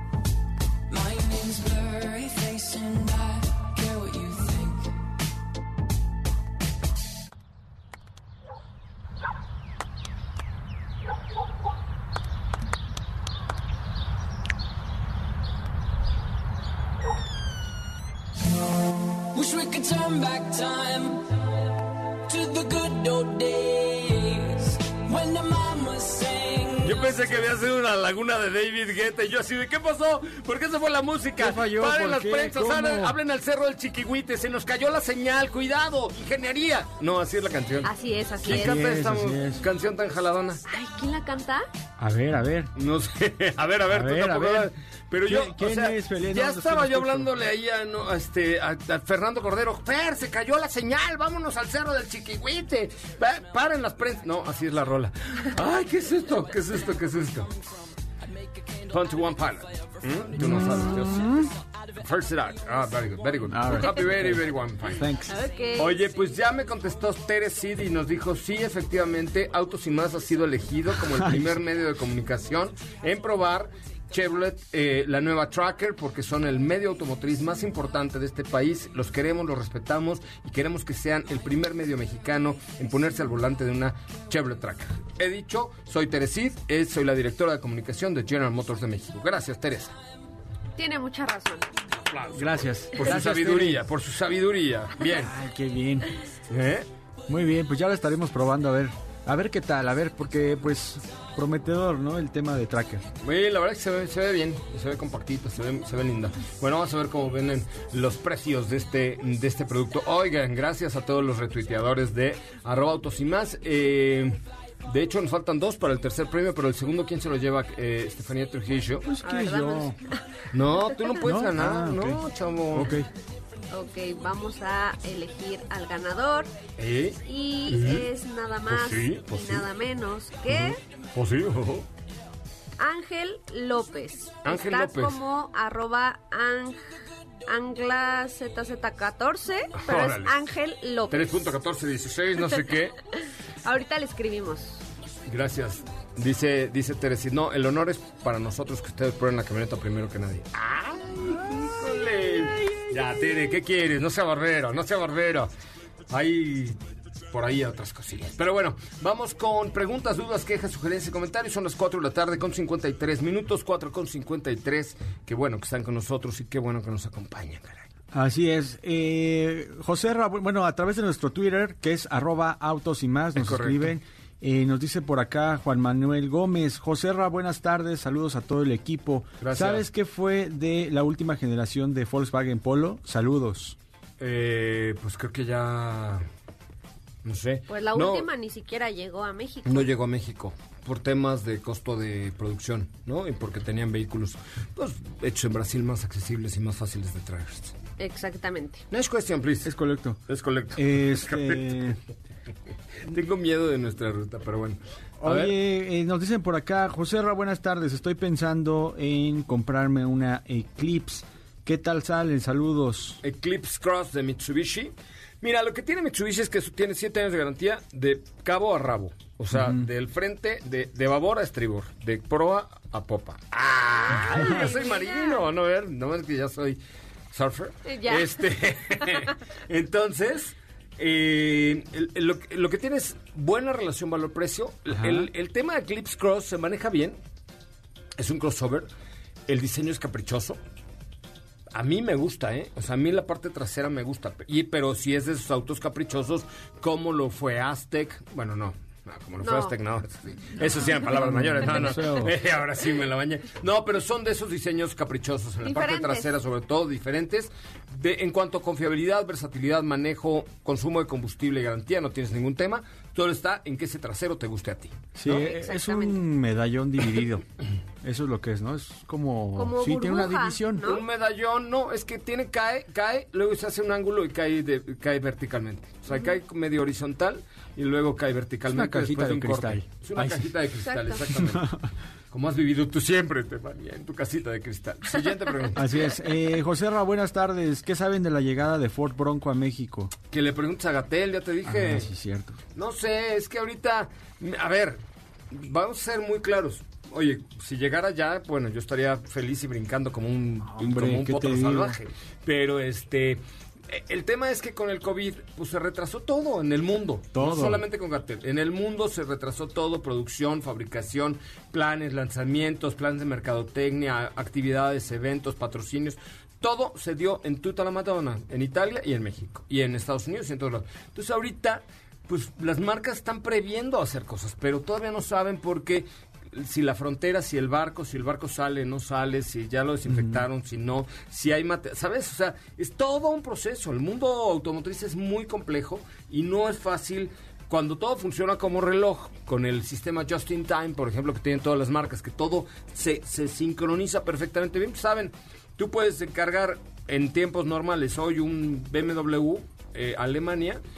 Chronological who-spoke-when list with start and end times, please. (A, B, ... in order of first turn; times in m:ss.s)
0:00.9-0:04.9 A
0:19.3-0:21.3 A
0:22.3-0:27.4 A
0:26.8-0:37.9 B
0:31.4-0:33.2 C
0:37.8-0:38.8 D
0:38.4-0:40.6 B
0:38.4-0:39.6 C
0:40.7-0:41.7 D
0:42.0-0:42.7 C
0:42.8-0:57.5 B
0:43.9-0:44.7 C
0:45.2-0:47.3 C
0:56.4-1:03.5 A
0:58.9-1:01.3 B
1:00.4-1:01.5 C
1:02.0-1:05.1 B
1:03.4-1:05.4 C
1:05.3-1:05.7 A
1:05.3-1:06.0 D
1:05.8-1:30.0 B
1:11.0-1:11.6 C
1:30.8-1:31.7 D
1:32.0-1:35.3 B
1:32.3-1:33.8 C
1:35.1-1:36.1 C
1:36.5-1:36.9 B
1:37.3-1:43.1 C
1:43.2-1:59.1 B
1:59.0-2:00.0 C
1:59.2-2:00.2 D
2:00.5-2:03.0 B
2:01.2-2:03.1 C
2:03.7-2:06.5 D
2:06.8-2:08.1 B
2:07.2-2:10.8 D
2:08.7-2:09.7 B
2:10.5-2:11.9 B
2:12.8-2:16.9 D
2:14.4-2:15.2 B
2:17.5-2:21.4 D
2:19.8-2:20.4 B
2:21.1-2:23.0 B
2:23.6-2:24.8 D
2:25.3-2:35.5 B
2:36.1-2:36.8 B
2:37.3-2:47.9 B
2:48.1-3:03.8 C
2:53.4-2:53.9 B
2:59.4-2:59.9 B
3:04.2-3:06.3 B
3:07.2-3:08.3 B
3:07.7-3:09.9 D
3:09.7-3:17.8 B
3:18.0-3:18.8 D
3:18.9-3:19.7 B
3:19.6-3:20.2 C
3:20.3-3:21.8 B
3:20.8-3:22.0 C
3:23.0-3:25.6 B
3:25.2-3:33.2 C
3:33.2-3:46.8 B
3:39.5-3:39.9 C
3:44.1-3:45.4 D
3:47.3-3:57.2 B
3:47.9-3:49.2 D
3:54.9-3:55.3 C
3:58.2-3:58.9 B
3:59.5-4:00.6 B
4:01.7-4:25.1 B
4:09.4-4:09.8 D
4:10.9-4:12.4 C
4:15.6-4:16.4 D
4:25.2-4:27.5 C
4:25.3-4:26.2 D
4:28.0-4:30.8 C
4:29.6-4:31.0 D
4:30.8-4:41.7 B
4:36.1-4:36.4 D
4:38.7-4:40.5 C
4:40.8-4:41.2 D
4:41.4-4:41.7 C
4:42.3-4:45.9 B
4:45.8-4:50.1 C
4:50.3-4:52.1 B
4:51.6-4:52.6 C
4:52.7-5:50.8 B
5:00.7-5:02.0 C
5:07.3-5:07.8 C
5:30.1-5:30.4 C